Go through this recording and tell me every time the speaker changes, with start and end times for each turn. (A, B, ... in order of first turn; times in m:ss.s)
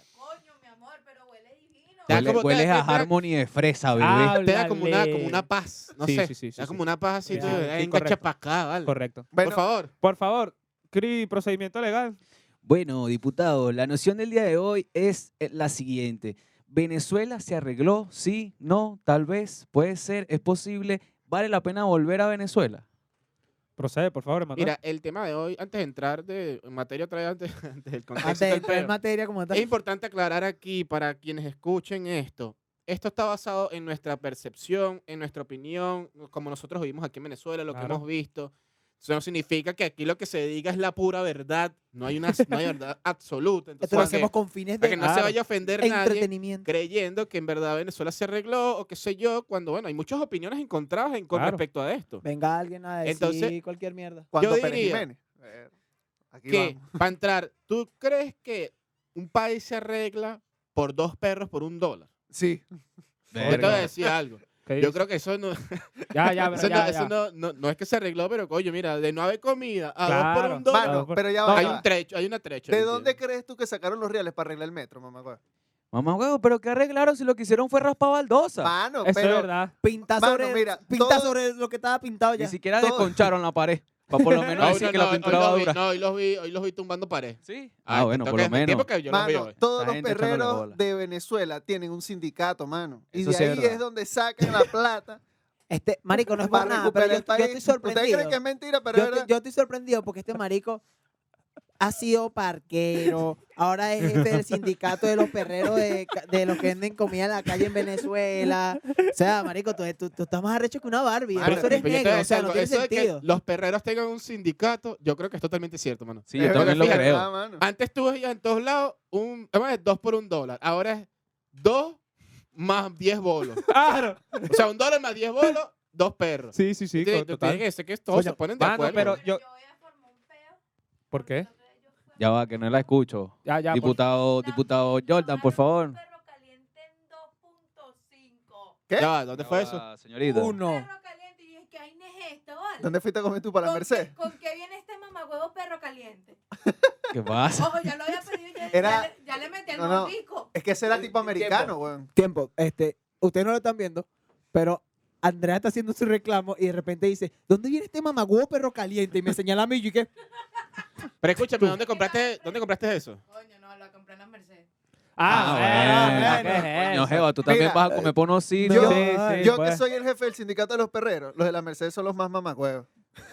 0:00.1-0:02.3 A
0:02.1-0:03.1 B
0:02.1-0:04.4 C
0:04.0-0:05.4 D
0:04.3-0:09.9 B
0:06.0-0:08.2 D
0:08.8-0:09.3 D
0:09.3-0:09.6 E
0:10.0-0:12.2 D
0:12.6-0:22.8 C
0:23.8-0:24.7 D
0:24.6-0:28.9 B
0:28.2-0:29.7 F
0:28.4-0:28.9 D
0:29.5-0:52.2 B
0:37.7-0:38.0 D
0:43.8-0:46.7 F
0:43.9-0:44.2 E
0:45.0-0:45.3 D
0:51.3-0:51.6 D
0:52.2-0:54.3 F
0:53.0-0:53.6 B
0:54.3-0:55.7 E
0:54.4-0:55.0 B
0:56.3-0:57.0 E
0:56.5-1:02.1 B
1:02.3-1:02.6 E
1:03.3-1:03.9 C
1:03.4-1:03.9 D
1:03.4-1:13.1 B
1:04.6-1:05.0 D
1:06.1-1:07.1 D
1:10.0-1:11.8 D
1:10.7-1:11.8 E
1:12.7-1:15.4 E
1:15.9-1:18.7 C
1:18.6-1:21.3 E
1:19.0-1:19.7 D
1:19.8-1:22.6 F
1:22.4-1:25.8 C
1:22.8-1:23.3 E
1:24.2-1:24.8 D
1:24.6-1:29.6 B
1:27.4-1:28.9 C
1:29.0-1:35.2 E
1:29.7-1:30.8 C
1:33.1-1:33.8 C
1:35.7-1:38.4 F
1:36.4-1:39.3 E
1:38.9-1:40.8 F
1:41.8-1:53.2 F
1:51.3-1:51.9 E
1:51.4-2:02.0 B
1:56.3-1:57.3 C
1:56.4-1:57.6 E
2:02.5-2:03.6 B
2:03.6-2:04.6 D
2:04.5-2:09.2 B
2:06.5-2:07.6 D
2:08.6-2:09.4 D
2:08.8-2:10.6 A
2:11.1-2:12.9 A
2:11.1-2:11.5 D
2:12.2-2:16.0 C
2:13.4-2:14.0 D
2:13.8-2:18.8 A
2:19.0-2:19.8 B
2:19.4-2:20.6 C
2:20.2-2:22.9 A
2:20.3-2:20.8 F
2:22.8-2:24.1 E
2:23.6-2:26.4 A
2:27.1-2:27.8 C
2:27.6-2:30.5 A
2:28.7-2:29.1 E
2:29.7-2:32.1 E
2:32.1-2:40.1 F
2:41.2-2:43.2 B
2:41.8-2:42.6 A
2:43.3-2:44.6 A
2:45.2-2:47.3 D
2:45.3-2:49.1 C
2:45.3-2:46.6 F
2:47.4-2:48.1 E
2:48.6-2:49.8 D
2:48.6-2:49.5 F
2:48.7-2:52.9 E